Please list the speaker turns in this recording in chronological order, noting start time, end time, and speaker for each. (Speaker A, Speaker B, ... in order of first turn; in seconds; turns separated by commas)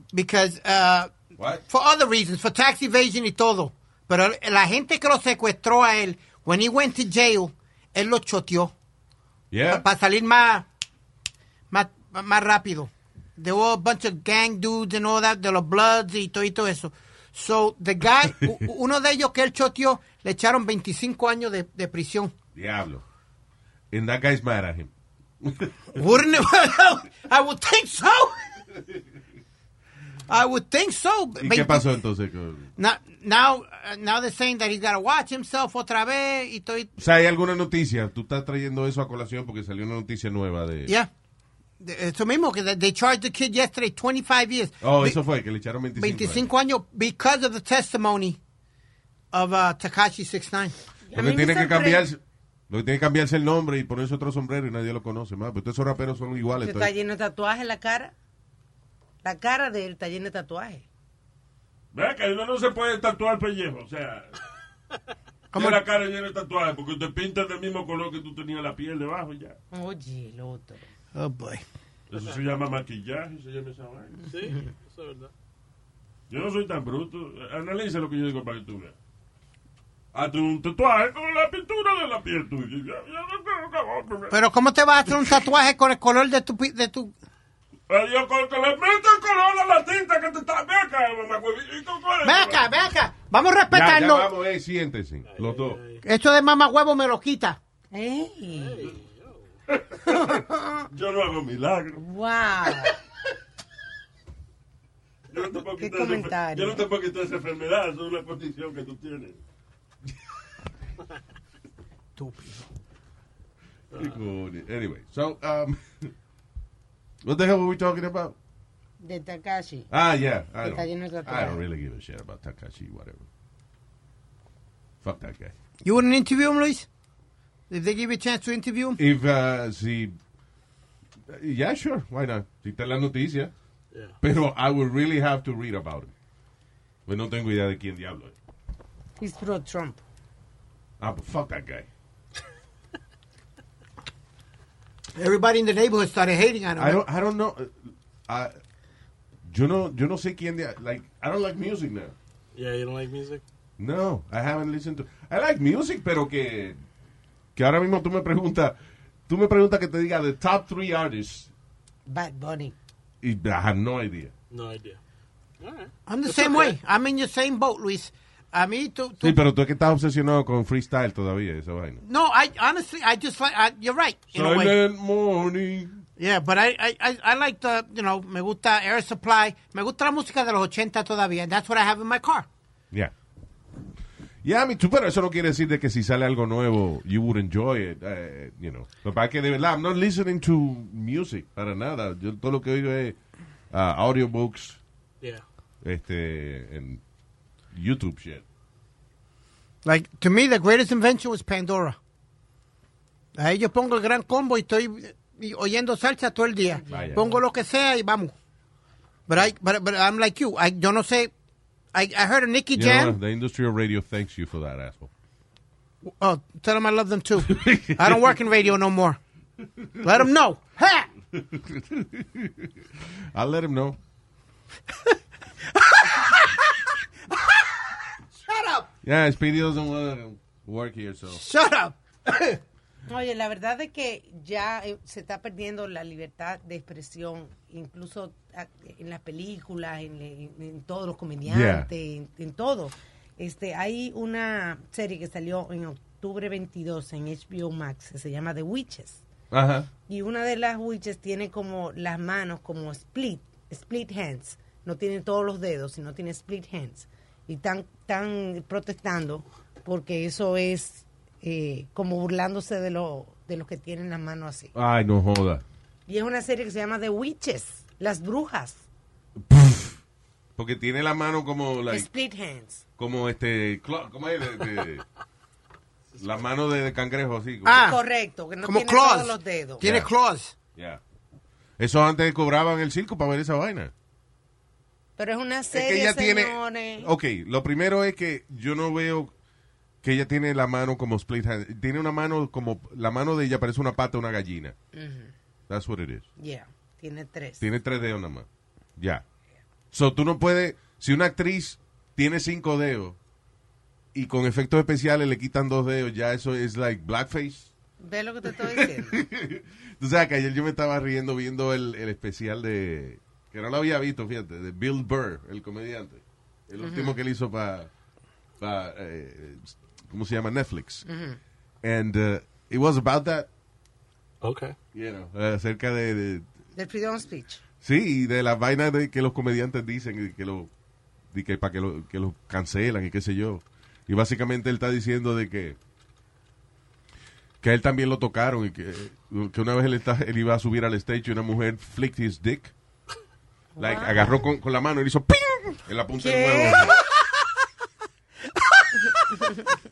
Speaker A: 0.1-1.1, Speaker B: 1.4-1.6, Speaker A: 1.7-8.7, Speaker B: 9.5-9.8, Speaker A: 9.7-10.7, Speaker A: 11.7-22.3, Speaker B: 22.6-23.0, Speaker B: 23.9-24.9, Speaker B: 25.4-26.0, Speaker A: 25.9-28.5, Speaker A: 30.3-31.9, Speaker B: 31.4-32.7, Speaker A: 32.8-36.9, Speaker B: 37.0-40.9, Speaker A: 41.8-45.2, Speaker B: 44.8-46.5, Speaker A: 46.0-48.4, Speaker A: 49.3-50.8, Speaker C: 51.1-52.1, Speaker B: 51.1-56.9, Speaker C: 56.6-58.1, Speaker C: 59.2-60.9, Speaker D: 61.9-64.3, Speaker A: 65.5-65.8, Speaker D: 65.5-69.6, Speaker C: 69.7-70.8, Speaker A: 71.2-71.7, Speaker D: 72.1-74.2, Speaker E: 74.3-75.3, Speaker D: 76.3-78.9, Speaker D: 80.1-84.4, Speaker A: 84.3-87.1, Speaker D: 87.9-92.7, Speaker A: 92.2-94.3, Speaker B: 93.7-95.8, Speaker E: 95.3-96.0, Speaker A: 96.0-97.6, Speaker C: 97.9-98.9, Speaker E: 98.5-99.5, Speaker D: 99.7-100.4, Speaker C: 100.0-100.9, Speaker D: 100.9-102.0, Speaker C: 102.0-103.0, Speaker D: 105.3-109.4, Speaker C: 105.8-106.8, Speaker A: 112.2-112.6, Speaker B: 113.9-116.1, Speaker B: 117.2-118.4, Speaker C: 119.0-119.9, Speaker B: 119.9-123.3, Speaker C: 120.6-121.6, Speaker B: 125.0-125.5, Speaker A: 125.8-126.9, Speaker A: 127.7-129.0, Speaker B: 129.0-130.2, Speaker B: 131.3-133.5, Speaker B: 134.2-136.1, Speaker B: 137.1-138.3, Speaker C: 139.2-140.0, Speaker B: 141.0-141.9, Speaker A: 145.2-147.0, Speaker B: 146.8-148.6, Speaker B: 149.5-152.2, Speaker E: 152.6-153.4, Speaker B: 153.8-156.8, Speaker B: 157.6-158.8, Speaker B: 159.3-161.5, Speaker C: 162.1-162.8, Speaker B: 163.2-164.3, Speaker E: 164.5-165.0, Speaker E: 165.6-166.8, Speaker A: 166.1-169.4, Speaker B: 169.2-172.0, Speaker A: 172.0-174.8, Speaker B: 174.3-176.0, Speaker A: 176.2-182.5, Speaker B: 184.4-193.2, Speaker B: 193.7-194.8, Speaker B: 195.8-197.0, Speaker B: 197.7-198.4, Speaker A: 199.8-202.0, Speaker A: 203.4-208.3, Speaker C: 206.7-207.4, Speaker B: 206.9-207.2, Speaker A: 209.3-211.3, Speaker A: 211.9-213.2, Speaker B: 212.7-215.1, Speaker A: 216.1-219.2, Speaker B: 217.4-218.3, Speaker A: 220.0-221.1, Speaker B: 221.3-222.7, Speaker B: 223.3-224.0, Speaker A: 225.8-226.8, Speaker A: 227.3-227.8, Speaker A: 228.4-228.9, Speaker B: 229.0-231.4, Speaker A: 231.3-232.6, Speaker C: 233.1-249.2, Speaker B: 241.5-241.9, Speaker B: 249.5-249.9, Speaker C: 250.1-264.7, Speaker B: 264.7-265.6, Speaker C: 266.1-268.8, Speaker B: 269.4-270.0, Speaker B: 270.6-272.1, Speaker C: 271.9-272.8, Speaker B: 273.0-275.0, Speaker B: 276.2-277.9, Speaker A: 277.6-278.0, Speaker C: 277.7-279.9, Speaker A: 278.6-280.5, Speaker B: 279.8-280.1, Speaker B: 280.8-281.0, Speaker B: 281.8-283.9, Speaker C: 285.2-287.1, Speaker B: 285.7-289.3, Speaker B: 290.0-294.8, Speaker C: 294.9-295.3, Speaker B: 295.7-296.3, Speaker C: 296.4-297.6, Speaker B: 297.6-299.2, Speaker B: 299.9-303.2, Speaker B: 304.1-307.7, Speaker C: 308.0-309.2, Speaker B: 308.5-317.9, Speaker C: 316.8-317.1, Speaker B: 318.6-321.0, Speaker C: 321.1-321.4, Speaker B: 321.8-323.5, Speaker E: 324.4-324.8, Speaker B: 324.9-326.5, Speaker C: 326.8-327.6, Speaker B: 327.8-330.7, Speaker B: 331.3-335.8, Speaker B: 337.6-342.7, Speaker C: 343.8-344.4, Speaker B: 343.8-347.0, Speaker C: 346.2-346.9